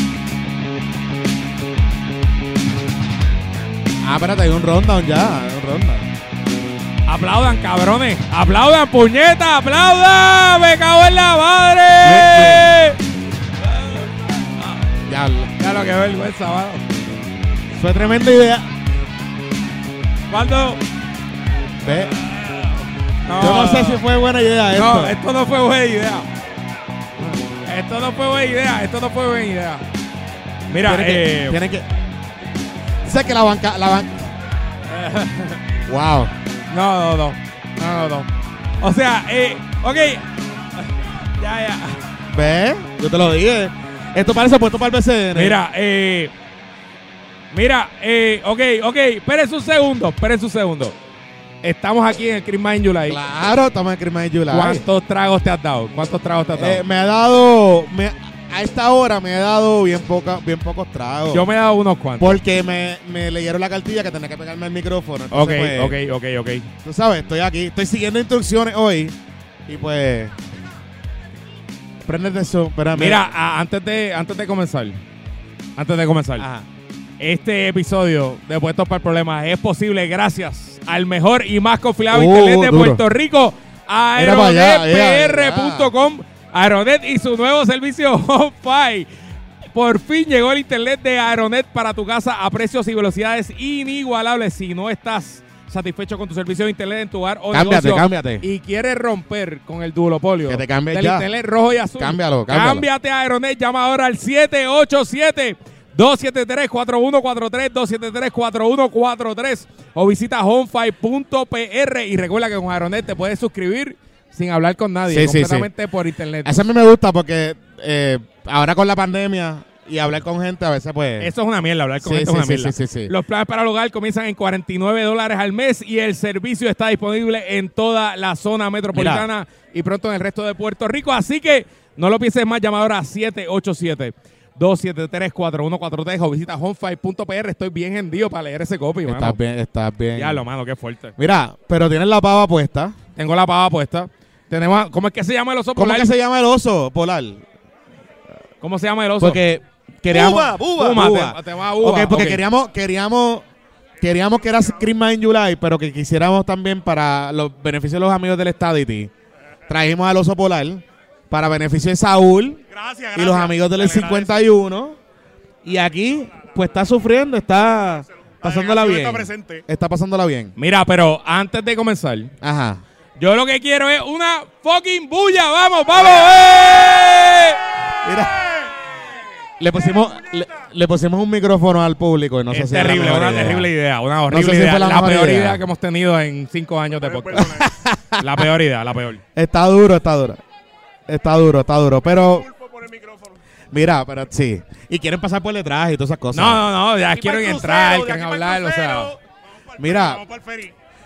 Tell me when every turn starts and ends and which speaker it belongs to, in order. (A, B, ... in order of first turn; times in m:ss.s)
0:04.0-0:06.1 A
0:07.0-0:13.0 B
0:12.0-0:12.6 A
0:13.6-0:14.8 B
0:15.1-0:15.5 A
0:15.6-0:16.8 B
0:17.7-0:18.7 A
0:20.3-0:20.8 B
0:21.8-0:22.1 A
0:21.9-0:24.0 B
0:23.4-0:25.2 A
0:24.7-0:26.3 B
0:27.6-0:29.8 B
0:30.7-0:31.6 B
0:30.8-0:31.9 A
0:33.0-0:34.3 A
0:34.9-0:35.6 B
0:35.9-0:36.3 A
0:36.7-0:38.3 B
0:38.8-0:40.2 B
0:40.8-0:42.0 B
0:42.3-0:45.6 A
0:45.3-0:46.3 B
0:47.5-0:50.9 B
0:51.6-0:53.2 B
0:53.1-0:54.8 A
0:54.5-0:56.8 B
0:56.5-1:01.5 A
1:01.3-1:02.4 B
1:02.2-1:06.0 A
1:05.3-1:06.7 B
1:06.8-1:10.3 A
1:12.0-1:13.3 A
1:12.9-1:15.0 B
1:15.8-1:16.5 B
1:16.4-1:16.7 A
1:17.2-1:29.1 B
1:22.1-1:23.0 A
1:24.2-1:25.9 A
1:29.7-1:56.6 B
1:37.5-1:38.4 A
1:40.5-1:41.2 A
1:42.0-1:42.8 A
1:55.1-1:55.7 A
1:56.4-2:01.3 A
2:01.2-2:19.4 B
2:02.0-2:03.1 A
2:08.9-2:09.2 A
2:19.0-2:20.4 A
2:20.1-2:21.2 B
2:21.2-2:23.0 A
2:23.2-2:26.1 B
2:25.8-2:27.4 A
2:28.6-2:29.4 B
2:29.2-2:33.4 A
2:30.1-2:32.4 B
2:34.0-2:39.1 A
2:39.7-2:42.6 A
2:42.7-2:44.4 C
2:43.1-2:45.0 A
2:45.6-2:50.5 A
2:48.4-2:49.6 C
2:50.6-2:52.3 B
2:52.4-2:52.8 A
2:53.2-2:57.6 B
2:58.0-2:58.4 A
2:59.6-3:03.7 A
3:02.5-3:07.5 B
3:04.3-3:05.6 A
3:07.0-3:07.6 C
3:07.3-3:08.4 A
3:08.2-3:09.2 B
3:09.3-3:10.4 A
3:11.1-3:12.5 A
3:12.4-3:13.3 C
3:13.7-3:16.6 A
3:16.3-3:19.1 B
3:17.1-3:19.2 C
3:19.7-3:20.7 C
3:19.8-3:20.2 A